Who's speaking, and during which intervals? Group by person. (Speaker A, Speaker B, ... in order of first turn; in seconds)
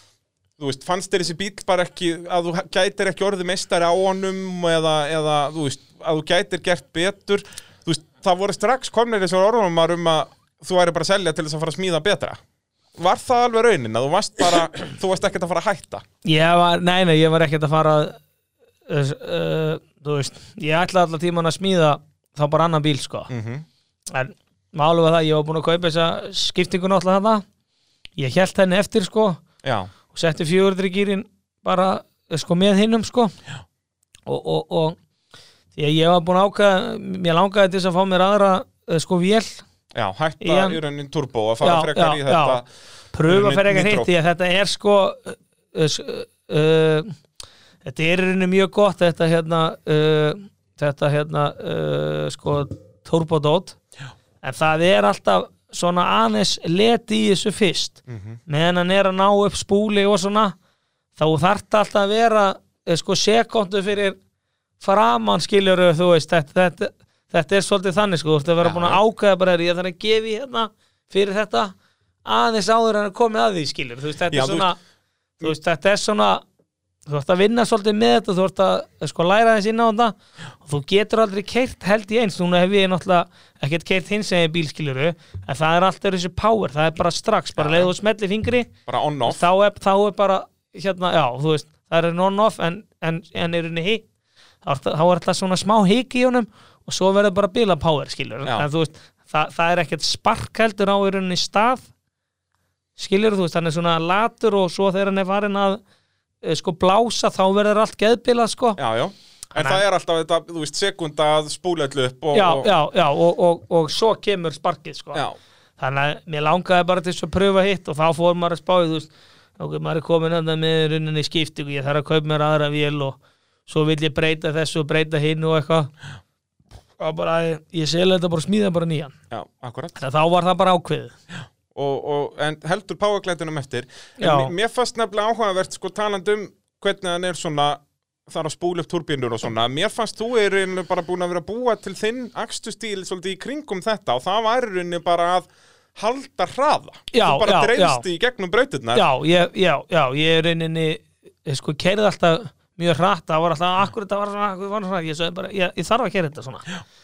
Speaker A: 0.6-12.4, 13.0-16.0, 23.3-23.6, 29.6-29.9, 39.9-42.7, 43.3-44.1, 58.1-58.4, 68.6-69.0, 74.3-74.7, 87.6-87.9, 88.9-89.4, 108.8-112.7, 129.3-130.0, 131.7-149.1
Speaker B: 16.2-18.2, 18.9-23.3, 24.1-27.4, 28.2-29.4, 30.1-33.3, 34.2-35.0, 35.8-39.6, 40.4-40.8, 41.6-42.6, 43.1-47.1, 47.8-53.8, 54.4-60.5, 61.2-64.2, 64.8-74.8, 75.4-76.4, 77.1-88.7, 89.3-94.0, 94.6-101.8, 103.0-105.8, 106.4-108.8, 109.5-109.8, 112.3-115.2, 115.8-125.9, 127.0-129.1, 129.9-131.1, 134.2-134.5, 147.1-148.0, 148.9-156.7